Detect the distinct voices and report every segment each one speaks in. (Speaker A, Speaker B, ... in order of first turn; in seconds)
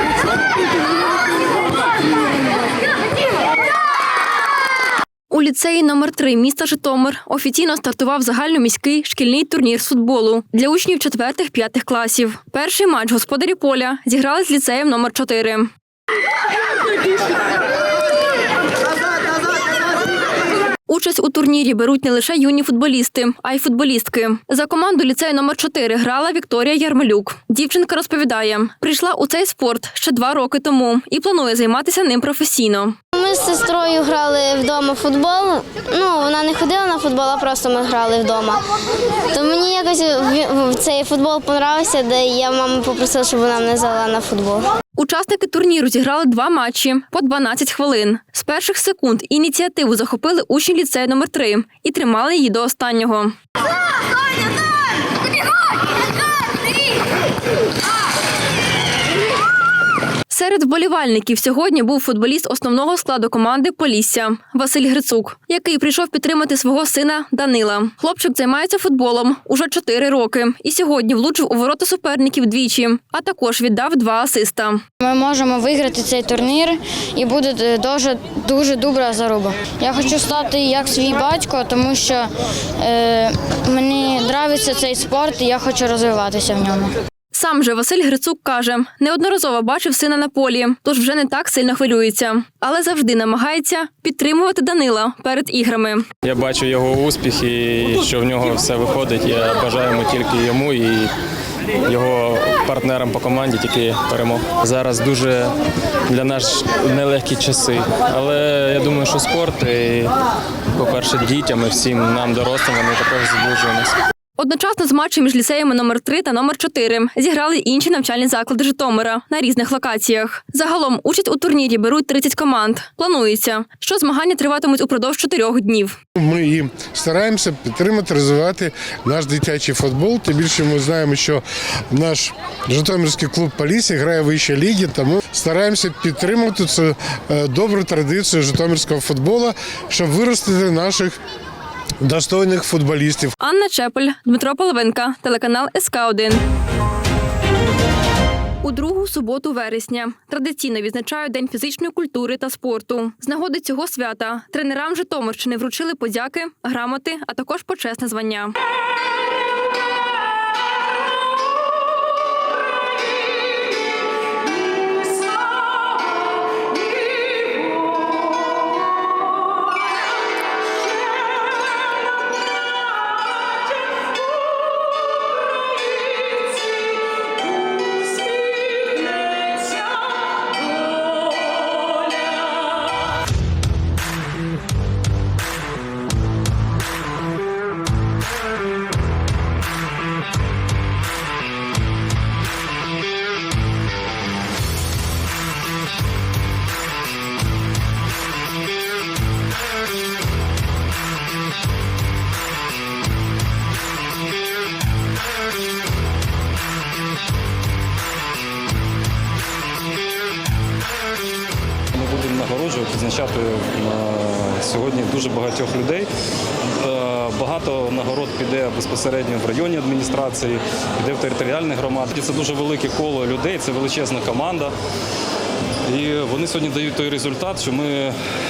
Speaker A: 5.3-15.7, 20.9-33.0, 45.0-53.3, 60.3-74.8, 87.3-96.1, 114.4-126.0, 143.4-146.4, 148.6-158.5
Speaker B: 33.1-38.6, 39.3-44.7
Speaker C: 75.0-86.9
Speaker D: 96.2-101.1, 101.9-105.5, 106.1-110.1, 110.8-113.9
Speaker E: 126.2-141.2, 142.0-143.3
Speaker F: 211.9-216.1, 216.8-224.7, 225.9-228.1